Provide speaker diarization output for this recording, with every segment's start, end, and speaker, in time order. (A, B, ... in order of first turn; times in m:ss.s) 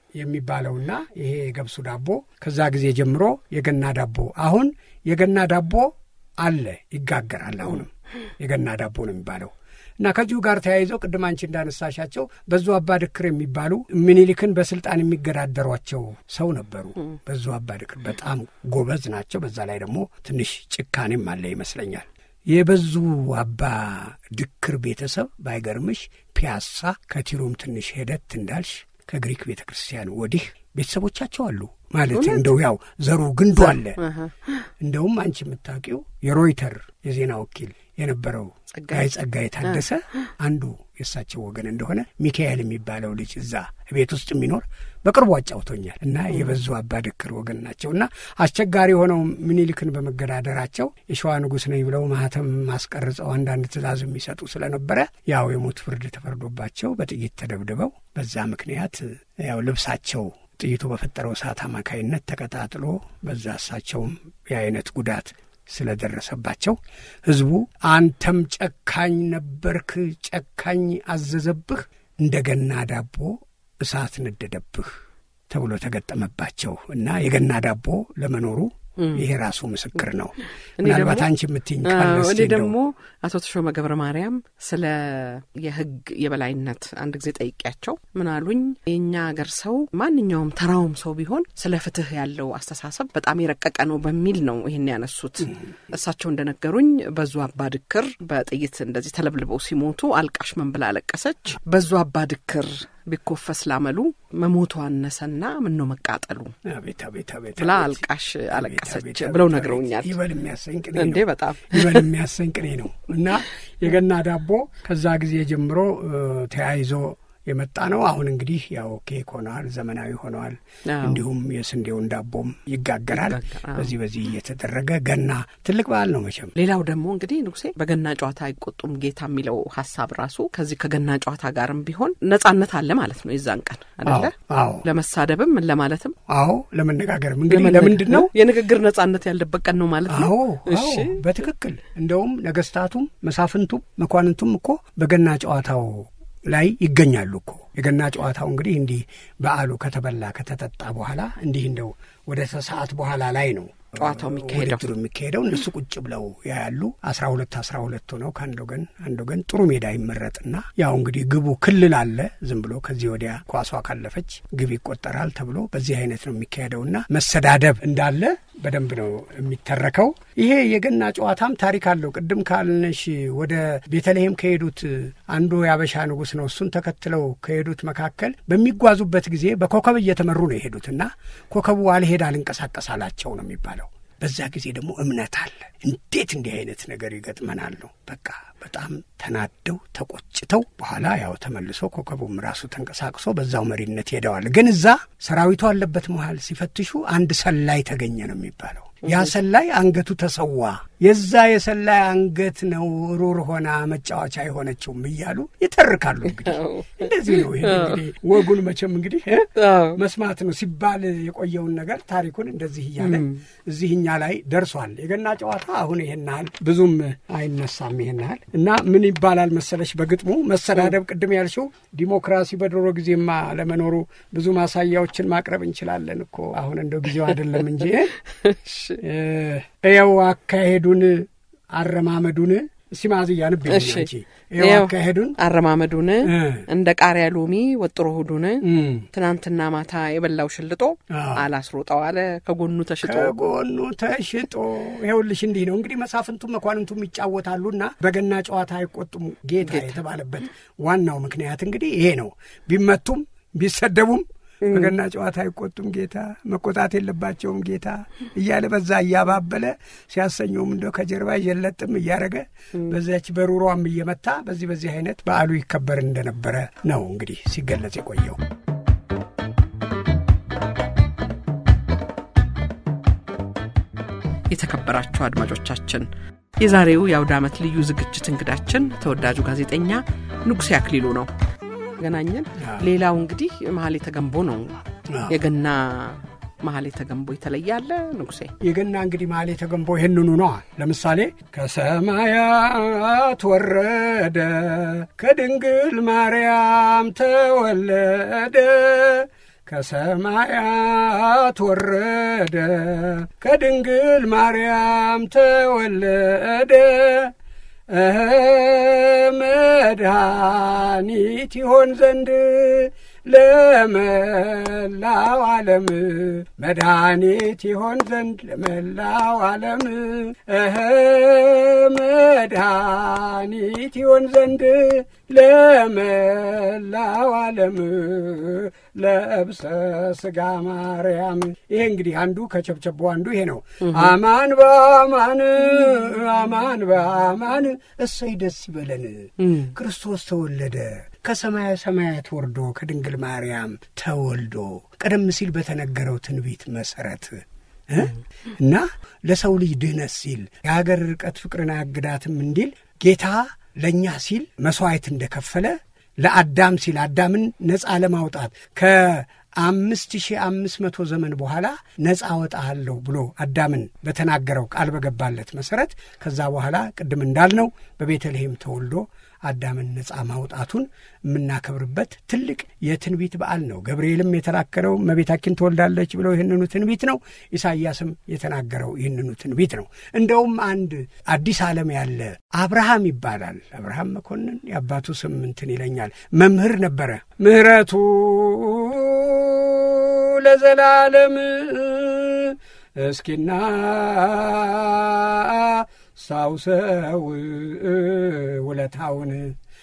0:00.2-0:34.0 A
0:32.1-0:32.6 B
0:33.6-0:34.6 B
0:34.8-1:14.9 A
0:38.8-0:39.1 B
0:46.3-0:46.6 B
1:15.5-1:22.7 A
1:19.0-1:19.2 B
1:20.8-1:21.3 B
1:21.8-1:46.5 B
1:46.6-2:06.5 A
1:47.6-1:50.2 B
1:50.9-1:52.1 B
2:00.9-2:01.2 B
2:03.1-2:03.9 B
2:06.6-2:14.3 B
2:14.0-2:14.8 A
2:14.8-2:16.2 B
2:16.3-2:18.3 A
2:17.5-2:21.2 B
2:20.1-3:48.2 A
2:34.0-2:34.8 B
3:19.0-3:19.3 B
3:26.4-3:28.0 B
3:29.6-3:30.0 B
3:33.0-3:33.4 B
3:48.3-3:49.0 B
3:49.0-3:55.4 A
3:53.7-3:54.1 B
3:54.6-4:03.4 B
3:56.2-3:56.6 A
3:58.6-3:59.1 A
4:01.1-4:01.4 A
4:03.0-4:28.4 A
4:09.6-4:10.0 B
4:14.6-4:14.9 B
4:34.5-4:36.1 B
4:36.6-4:41.3 B
4:42.0-4:48.5 B
4:42.6-4:42.8 A
4:45.1-4:45.4 A
4:48.6-5:07.3 A
5:07.9-6:39.6 A
5:33.8-5:34.1 B
5:39.4-5:39.7 B